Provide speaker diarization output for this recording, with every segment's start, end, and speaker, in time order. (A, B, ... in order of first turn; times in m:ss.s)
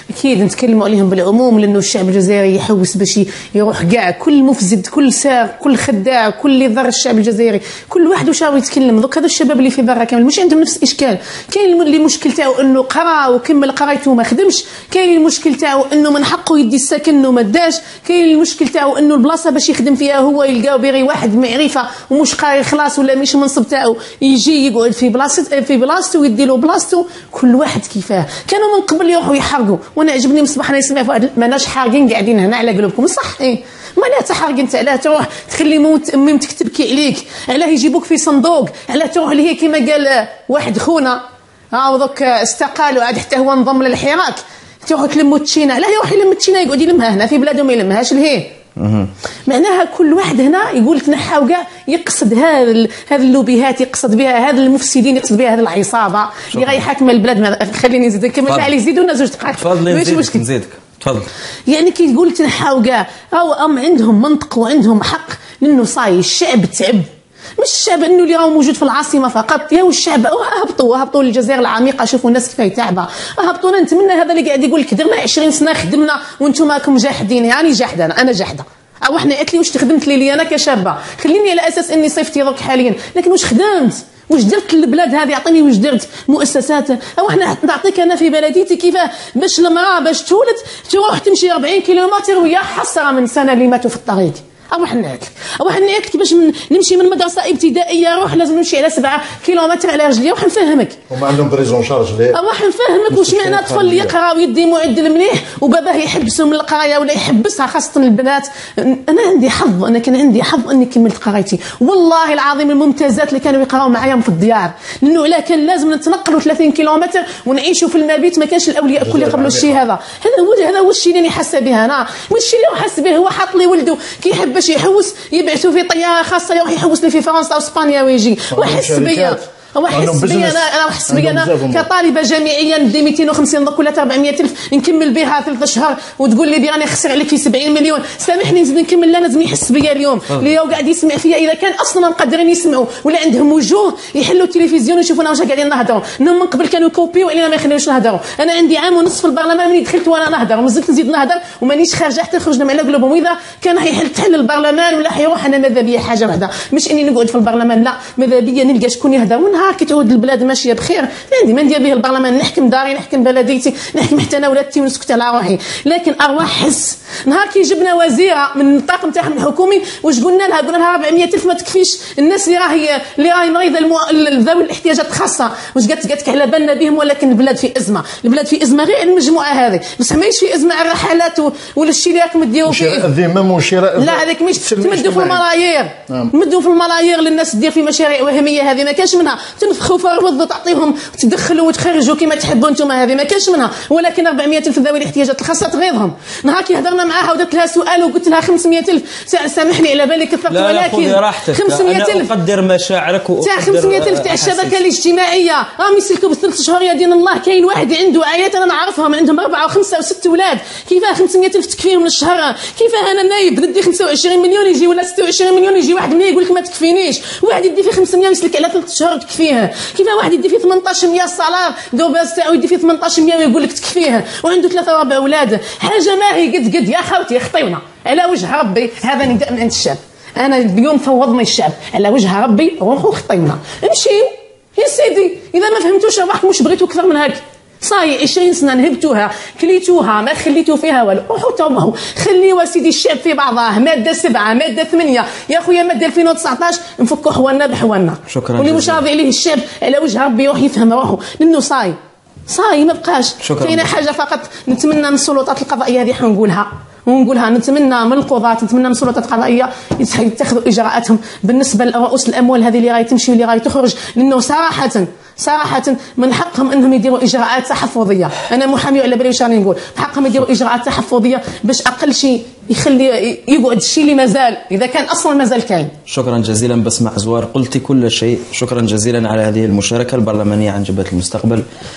0:00.1-0:41.2 A
0:41.7-0:48.5 A
0:48.8-0:49.1 B
0:49.5-1:00.4 A
0:56.5-0:56.8 B
0:59.6-1:01.3 B
1:01.7-1:41.0 A
1:41.1-1:42.4 C
1:42.3-3:03.1 A
1:43.1-1:44.1 C
1:59.0-1:59.8 C
2:08.5-2:11.9 C
3:02.6-3:05.4 C
3:04.0-3:22.3 A
3:20.5-3:24.8 B
3:23.4-4:12.0 A
4:08.3-4:09.0 B
4:12.5-4:35.9 A
4:13.4-4:13.9 B
4:36.1-4:41.6 B